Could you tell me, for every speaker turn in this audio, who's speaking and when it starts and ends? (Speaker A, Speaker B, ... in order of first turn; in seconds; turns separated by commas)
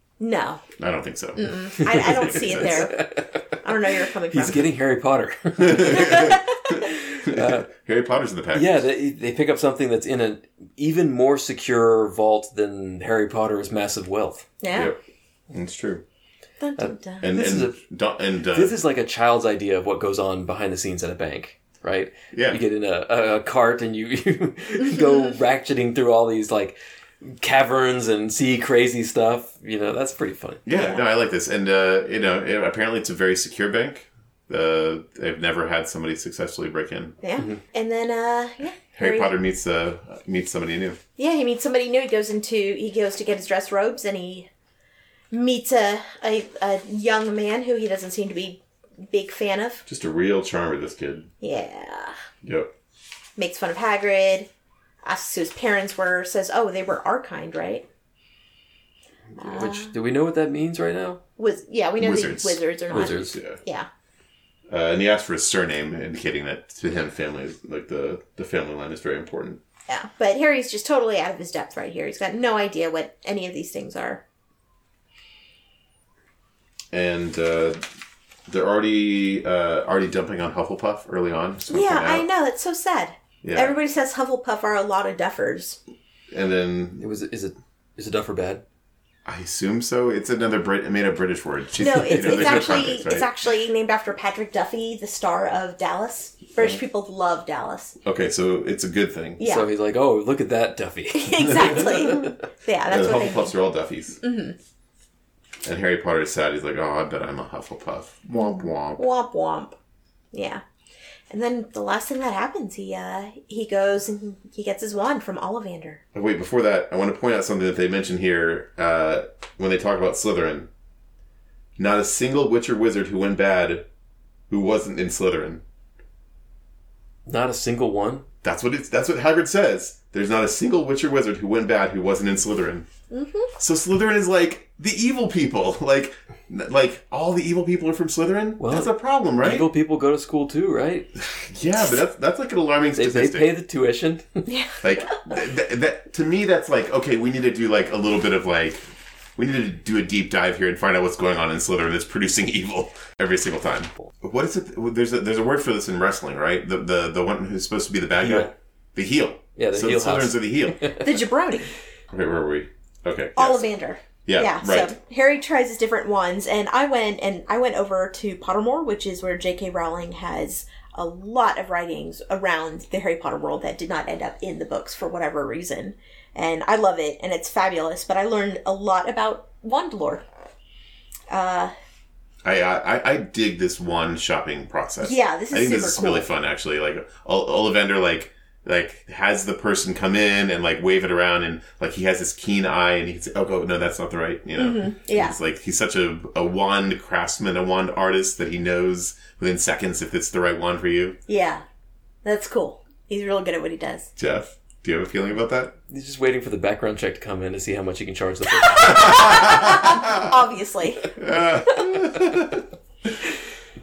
Speaker A: 0.2-0.6, Speaker B: 0.8-2.9, Speaker A: 1.4-4.7, Speaker C: 1.9-3.5, Speaker C: 4.3-7.7, Speaker B: 5.6-8.8, Speaker A: 5.9-6.6, Speaker C: 8.5-14.5, Speaker A: 14.6-14.9, Speaker B: 14.7-15.0, Speaker B: 15.5-16.0, Speaker A: 16.6-17.3, Speaker C: 16.8-17.8, Speaker B: 17.2-18.8, Speaker C: 18.5-30.6, Speaker B: 22.3-22.6, Speaker B: 30.7-37.2, Speaker A: 30.7-31.0, Speaker A: 37.2-39.3, Speaker B: 39.0-41.0, Speaker A: 41.2-44.5, Speaker A: 45.3-49.8, Speaker B: 49.9-51.3, Speaker A: 51.4-52.2, Speaker B: 52.4-52.7, Speaker A: 53.4-54.5, Speaker A: 55.0-57.9, Speaker C: 59.4-61.2, Speaker A: 59.4-59.9, Speaker A: 61.4-63.9, Speaker B: 62.0-62.6, Speaker C: 62.9-63.4, Speaker B: 63.3-63.6, Speaker B: 64.7-69.6, Speaker A: 69.9-74.2, Speaker B: 76.9-77.8, Speaker B: 78.5-82.3, Speaker A: 81.7-85.8, Speaker B: 83.4-83.8, Speaker B: 86.3-87.0, Speaker C: 87.0-88.6, Speaker B: 89.2-93.3, Speaker A: 91.8-98.0, Speaker C: 92.2-92.8, Speaker B: 98.0-99.4, Speaker A: 99.4-99.7, Speaker C: 99.4-102.4, Speaker A: 101.1-103.6, Speaker B: 101.5-102.2, Speaker B: 102.9-104.2, Speaker A: 104.2-104.6, Speaker B: 105.6-109.0, Speaker A: 108.3-109.8, Speaker A: 110.3-110.6, Speaker A: 111.3-116.0, Speaker B: 116.1-120.7, Speaker B: 121.8-123.9, Speaker B: 124.5-125.6, Speaker C: 127.3-128.3, Speaker B: 128.4-132.9, Speaker A: 133.1-133.5, Speaker B: 133.6-139.7, Speaker C: 138.6-141.1, Speaker B: 141.3-143.5, Speaker C: 142.9-144.5, Speaker A: 144.5-145.3, Speaker B: 144.8-148.8, Speaker B: 149.4-160.9, Speaker C: 158.2-158.5, Speaker C: 159.6-161.1, Speaker A: 161.0-161.7, Speaker B: 162.1-163.7, Speaker A: 163.4-180.2, Speaker B: 164.2-164.9, Speaker A: 181.3-181.7, Speaker B: 182.4-201.2, Speaker A: 185.0-186.3, Speaker A: 194.6-195.4, Speaker A: 201.3-201.6, Speaker A: 202.2-204.1, Speaker B: 204.2-205.8, Speaker C: 205.9-209.5, Speaker A: 208.6-212.2, Speaker B: 209.0-210.4, Speaker B: 211.2-213.1